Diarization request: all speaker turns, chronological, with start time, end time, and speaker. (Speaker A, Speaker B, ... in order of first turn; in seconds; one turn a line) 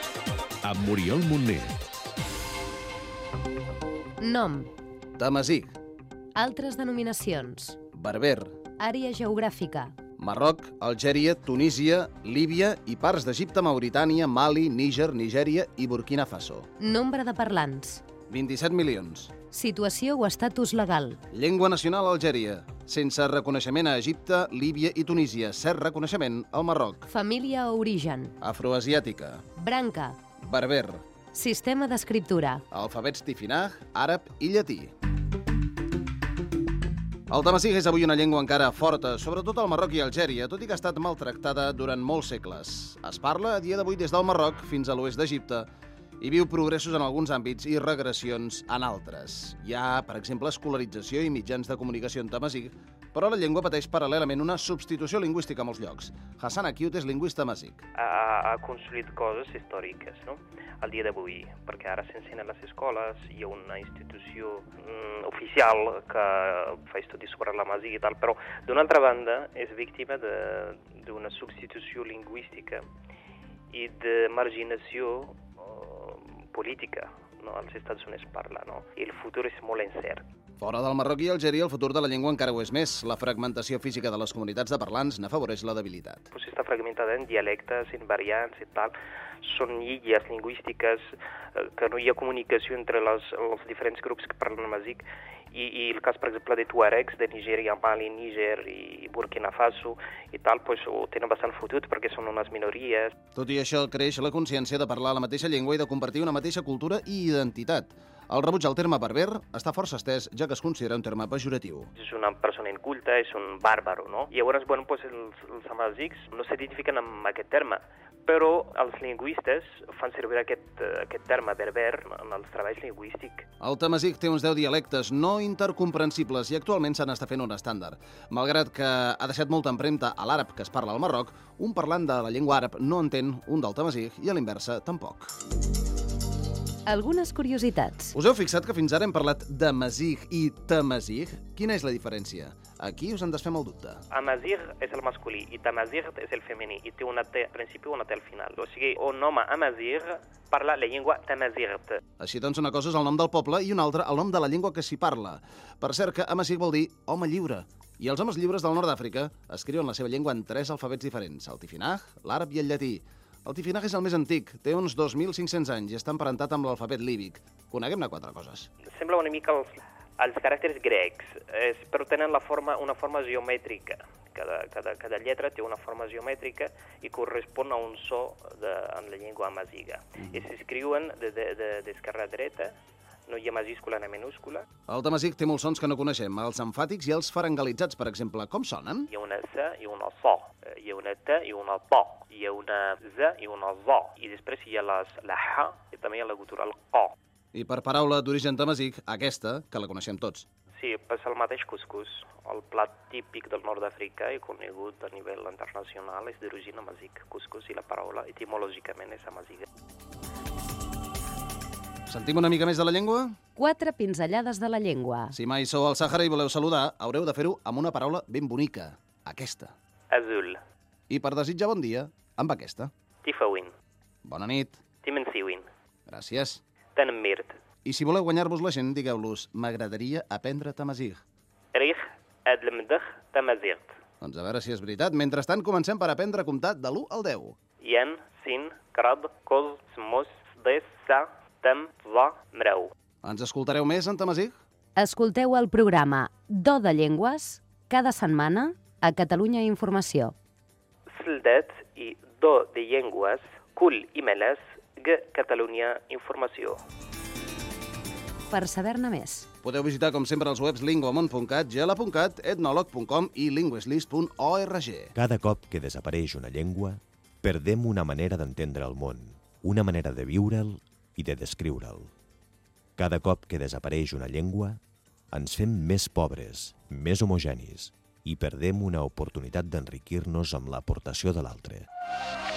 Speaker A: 0.6-1.8
Speaker B: 4.2-4.7
Speaker C: 5.2-5.7
Speaker B: 6.3-7.8
Speaker C: 7.9-8.6
Speaker B: 8.8-9.9
Speaker C: 10.2-16.7
Speaker B: 16.8-18.0
Speaker C: 18.3-19.3
Speaker B: 19.5-21.2
Speaker C: 21.3-27.1
Speaker B: 27.1-28.3
Speaker C: 28.4-29.4
Speaker B: 29.6-30.2
Speaker C: 30.4-31.0
Speaker B: 31.3-32.6
Speaker C: 32.7-34.9
Speaker C: 37.3-45.7
Speaker C: 46.2-57.8
Speaker D: 58.0-72.8
Speaker D: 73.7-80.2
Speaker C: 80.6-86.2
Speaker D: 86.3-103.1
Speaker C: 103.3-111.9
Speaker D: 112.0-123.5
Speaker C: 123.6-135.3
Speaker B: 136.8-138.1
Speaker C: 138.1-144.0
Speaker D: 144.1-152.0
Speaker C: 152.2-168.7
Speaker D: 168.9-182.7
Speaker D: 183.3-184.7
Speaker C: 184.9-189.1
Speaker D: 189.1-197.1
Speaker C: 197.5-200.4
Speaker D: 200.8-209.6
Speaker C: 212.1-213.3
Speaker B: 213.6-215.3
Speaker C: 215.3-219.7
Speaker D: 220.1-220.6
Speaker C: 221.1-222.9
Speaker D: 223.2-223.7
Speaker C: 224.2-224.8
Speaker D: 225.0-225.7
Speaker C: 226.1-226.6
Speaker D: 226.9-227.6
Speaker C: 227.8-231.2
Speaker D: 231.7-234.0
Speaker C: 234.2-237.6
Speaker D: 237.8-242.9
Speaker C: 243.2-244.5
Speaker B: 244.9-250.3
Speaker D: 251.1-256.8
Speaker B: 258.5-259.5
Speaker C: 259.6-265.1
Speaker A: 265.1-272.1
Speaker A: 272.9-274.8
Speaker A: 275.3-281.9